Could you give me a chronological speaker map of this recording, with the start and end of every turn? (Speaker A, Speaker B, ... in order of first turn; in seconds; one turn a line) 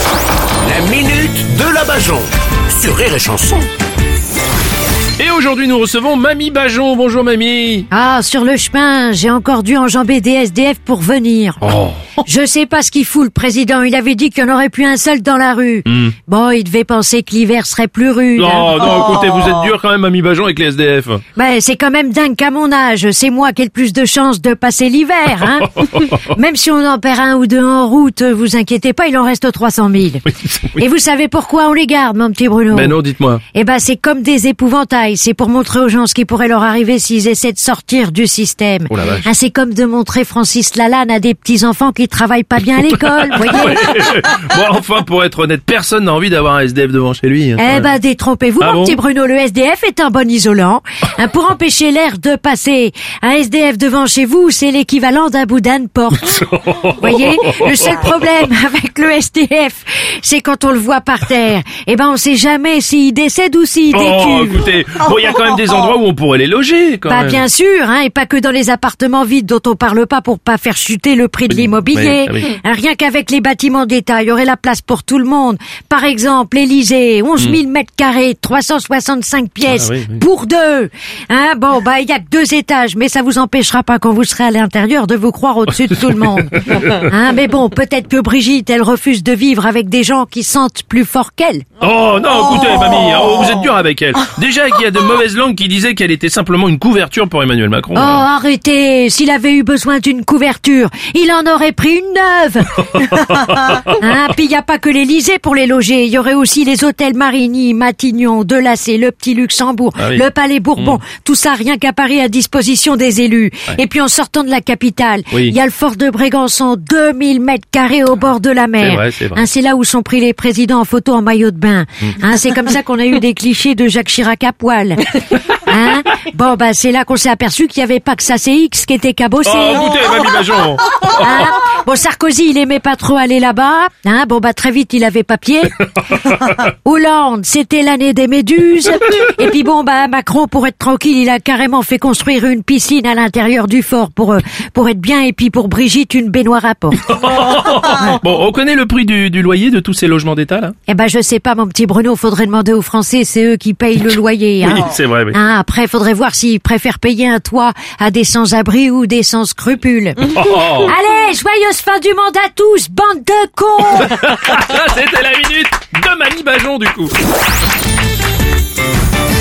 Speaker A: 0.6-3.7
Speaker B: 5.2-7.9
Speaker C: 7.9-11.6
Speaker B: 11.6-12.2
Speaker C: 12.2-18.9
Speaker B: 15.8-16.1
Speaker B: 18.3-21.2
Speaker C: 21.3-33.0
Speaker B: 30.4-30.8
Speaker B: 32.7-33.4
Speaker C: 33.5-43.9
Speaker B: 38.9-39.2
Speaker B: 42.8-47.9
Speaker C: 47.6-64.6
Speaker B: 48.6-49.0
Speaker B: 56.2-58.2
Speaker B: 63.9-67.4
Speaker C: 67.1-91.6
Speaker B: 71.5-72.5
Speaker B: 79.7-80.2
Speaker B: 85.7-87.1
Speaker B: 91.8-98.2
Speaker C: 97.9-130.1
Speaker B: 103.1-104.0
Speaker B: 110.0-110.2
Speaker B: 115.3-115.5
Speaker B: 118.8-119.5
Speaker B: 129.4-131.6
Speaker C: 131.1-135.8
Speaker B: 136.0-136.6
Speaker C: 136.7-147.1
Speaker B: 146.9-150.7
Speaker C: 150.9-164.2
Speaker B: 154.6-155.4
Speaker B: 160.2-160.9
Speaker B: 163.9-167.1